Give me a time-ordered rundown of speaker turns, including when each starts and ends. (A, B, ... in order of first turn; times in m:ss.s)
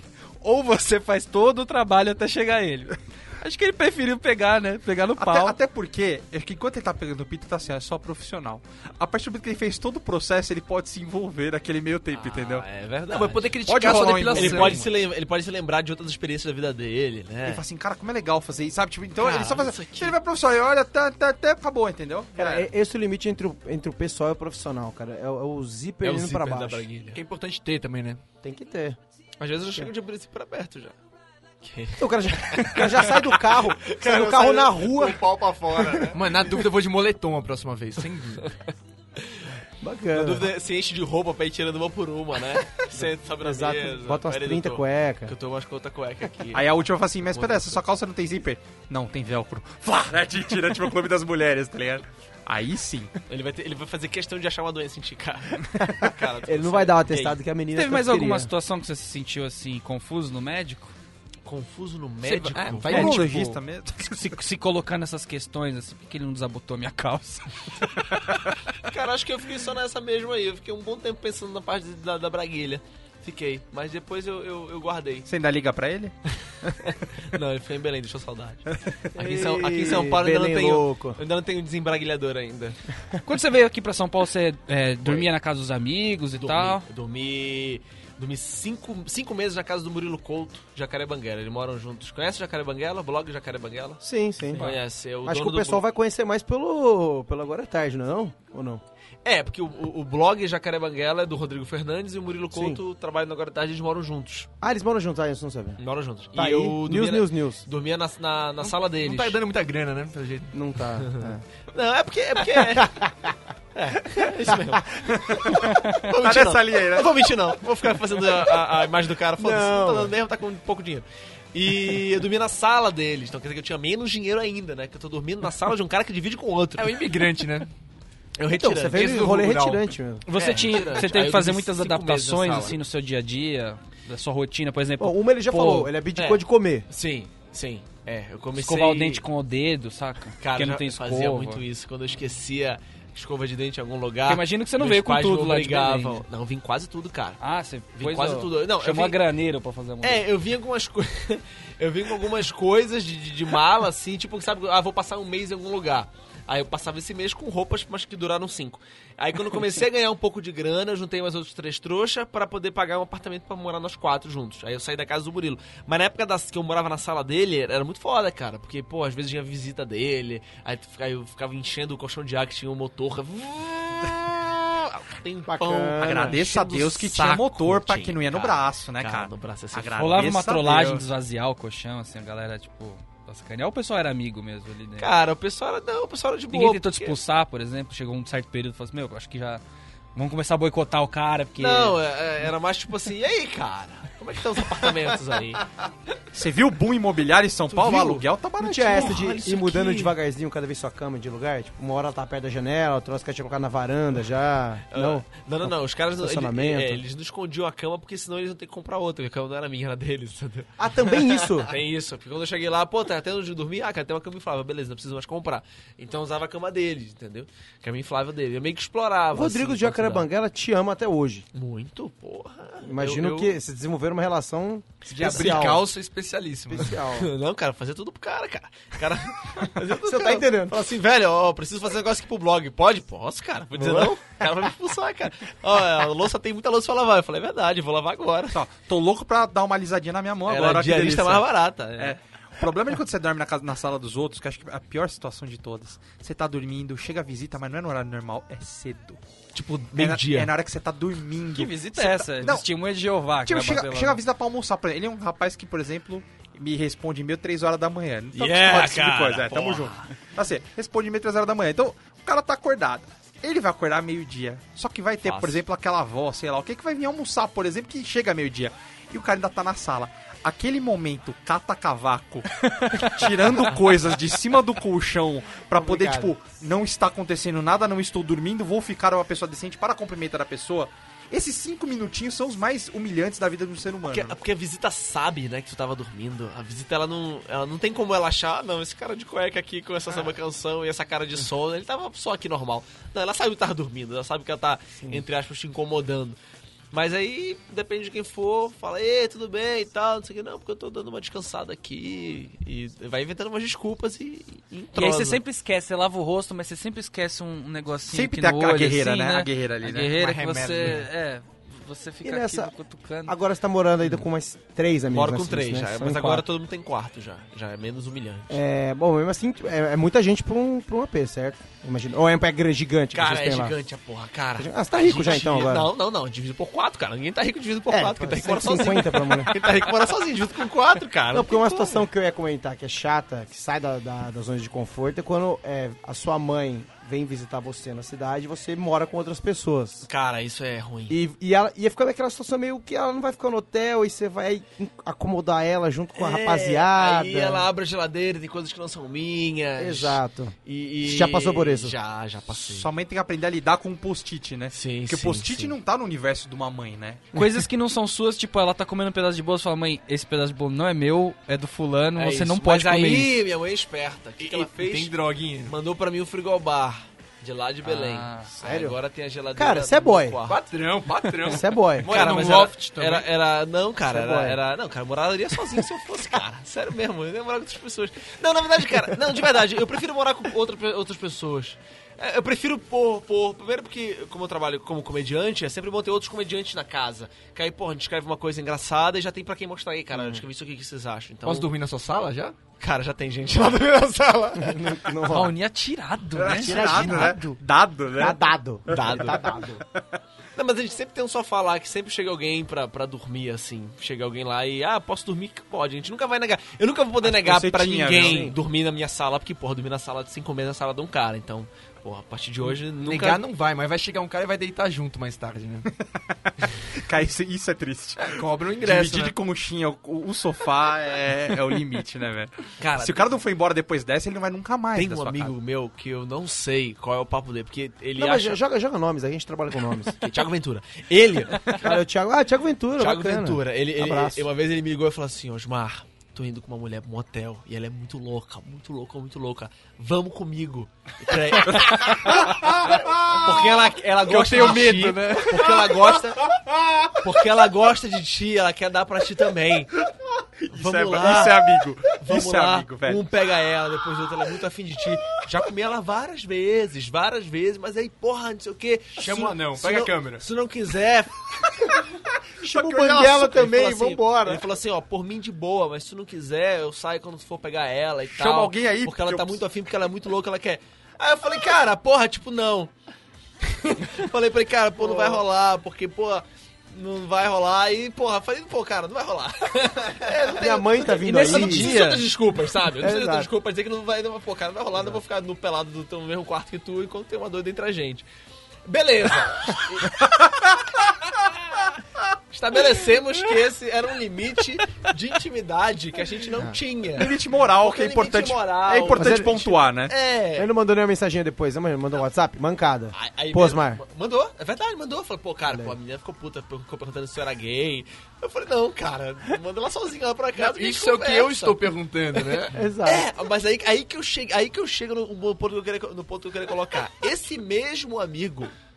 0:00.4-0:05.6 A
0:05.2-0:12.6 B
0:12.1-0:17.6 C
0:13.1-0:14.8 D
0:13.7-0:14.8 B
0:17.4-0:22.7 B
0:19.2-0:20.2 C
0:22.4-0:26.8 E
0:26.0-0:27.2 C
0:27.1-0:28.2 D
0:28.4-0:29.0 E
0:29.4-0:30.9 C
0:31.6-0:36.2 C
0:32.0-0:35.2 E
0:35.3-0:38.5 D
0:39.8-0:40.5 E
0:40.1-0:47.8 C
0:43.0-0:45.3 E
0:46.5-0:53.1 B
0:53.3-0:57.4 C
0:55.8-0:58.5 E
0:57.7-1:00.9 A
1:01.4-1:03.1 C
1:02.2-1:03.5 D
1:02.9-1:04.4 B
1:02.9-1:07.5 A
1:08.8-1:15.3 C
1:15.3-1:16.1 B
1:16.9-1:22.8 C
1:19.1-1:21.2 E
1:23.2-1:26.8 A
1:26.4-1:34.0 C
1:34.0-1:34.7 E
1:34.5-1:35.8 C
1:35.2-1:38.8 E
1:39.2-1:44.5 C
1:42.5-1:42.8 E
1:44.6-1:45.8 E
1:45.8-1:49.4 C
1:46.3-1:47.6 E
1:48.6-1:50.6 D
1:50.5-1:51.4 E
1:51.1-1:53.0 C
1:52.6-1:53.4 E
1:53.7-2:07.0 C
1:54.6-1:54.8 E
1:55.3-1:57.2 B
1:59.4-2:00.1 E
2:06.8-2:07.7 D
2:08.4-2:09.4 C
2:08.5-2:10.2 E
2:08.9-2:09.8 D
2:10.2-2:15.9 A
2:10.4-2:12.8 C
2:15.0-2:16.9 E
2:16.2-2:19.2 C
2:18.6-2:21.6 A
2:20.4-2:27.4 C
2:24.2-2:26.2 A
2:27.4-2:30.2 A
2:28.0-2:29.2 C
2:30.0-3:00.3 C
2:55.5-2:56.4 E
2:56.0-3:01.0 B
3:00.0-3:05.1 A
3:05.0-3:07.2 C
3:06.5-3:09.6 A
3:10.1-3:12.0 A
3:11.6-3:15.7 C
3:16.3-3:19.2 B
3:17.7-3:18.2 C
3:18.6-3:25.2 E
3:18.9-3:20.1 C
3:24.9-3:40.3 C
3:26.2-3:27.0 E
3:30.8-3:31.8 E
3:39.3-3:41.4 E
3:41.5-3:43.6 C
3:42.8-3:45.9 E
3:45.1-3:47.0 D
3:45.2-3:45.7 C
3:46.7-3:47.3 E
3:47.0-3:58.6 C
3:50.0-3:50.8 E
3:53.7-3:54.2 E
3:58.5-4:01.4 B
4:00.5-4:02.2 C
4:02.0-4:09.2 B
4:09.5-4:10.5 C
4:10.0-4:12.6 B
4:11.5-4:14.2 A
4:13.4-4:44.4 B
4:18.3-4:20.0 C
4:25.2-4:25.6 C
4:32.8-4:33.1 A
4:33.7-4:34.2 C
4:35.7-4:36.3 E
4:44.0-4:56.4 C
4:56.9-5:05.4 C
5:04.9-5:13.3 A
5:08.1-5:10.1 B
5:10.1-5:11.1 D
5:12.2-5:12.7 E
5:13.2-5:16.4 E
5:15.1-5:18.6 C
5:18.5-5:23.7 E
5:23.1-5:32.0 C
5:24.6-5:25.9 E
5:27.9-5:29.7 E
5:31.3-5:40.1 E
5:40.1-5:41.2 C
5:41.1-5:47.7 E
5:46.1-5:52.9 C
5:49.8-5:51.9 E
5:52.5-5:57.3 B
5:54.7-5:55.7 C
5:57.3-6:03.3 A
6:02.2-6:05.1 C
6:04.4-6:05.7 D
6:05.7-6:10.6 C
6:07.8-6:08.5 A
6:08.6-6:09.0 E
6:09.5-6:10.4 E
6:10.5-6:13.3 D
6:11.5-6:12.2 E
6:12.1-6:31.7 C
6:14.1-6:14.6 E
6:30.1-6:30.4 E
6:31.4-6:32.6 D
6:32.8-6:35.0 C
6:34.6-6:35.5 E
6:35.3-6:37.4 A
6:36.4-6:40.0 B
6:36.6-6:37.6 E
6:38.2-6:39.8 E
6:38.9-6:39.4 C
6:40.6-6:53.4 C
6:47.2-6:48.5 B
6:48.2-6:48.6 E
6:53.0-6:55.9 D
6:56.0-7:05.5 B
6:58.2-6:59.3 D
7:02.8-7:03.3 C
7:04.9-7:08.6 C
7:08.2-7:10.2 E
7:10.2-7:11.9 C
7:11.8-7:14.4 E
7:13.0-7:26.5 C
7:21.7-7:23.5 B
7:24.2-7:25.8 D
7:24.5-7:25.0 B
7:27.1-7:29.9 C
7:30.6-7:33.2 B
7:30.7-7:41.9 C
7:39.2-7:40.4 D
7:42.6-7:44.6 E
7:42.6-7:43.5 B
7:43.2-7:52.9 C
7:48.3-7:49.6 B
7:53.6-8:08.2 C
7:55.0-7:55.4 E
8:00.5-8:02.0 E
8:01.2-8:02.2 A
8:03.0-8:03.5 E
8:08.8-8:10.3 C
8:12.5-8:20.7 C
8:17.1-8:20.1 B
8:19.1-8:19.8 E
8:20.6-8:24.0 E
8:23.1-8:38.7 C
8:25.7-8:25.9 E
8:30.6-8:32.8 D
8:32.7-8:33.3 E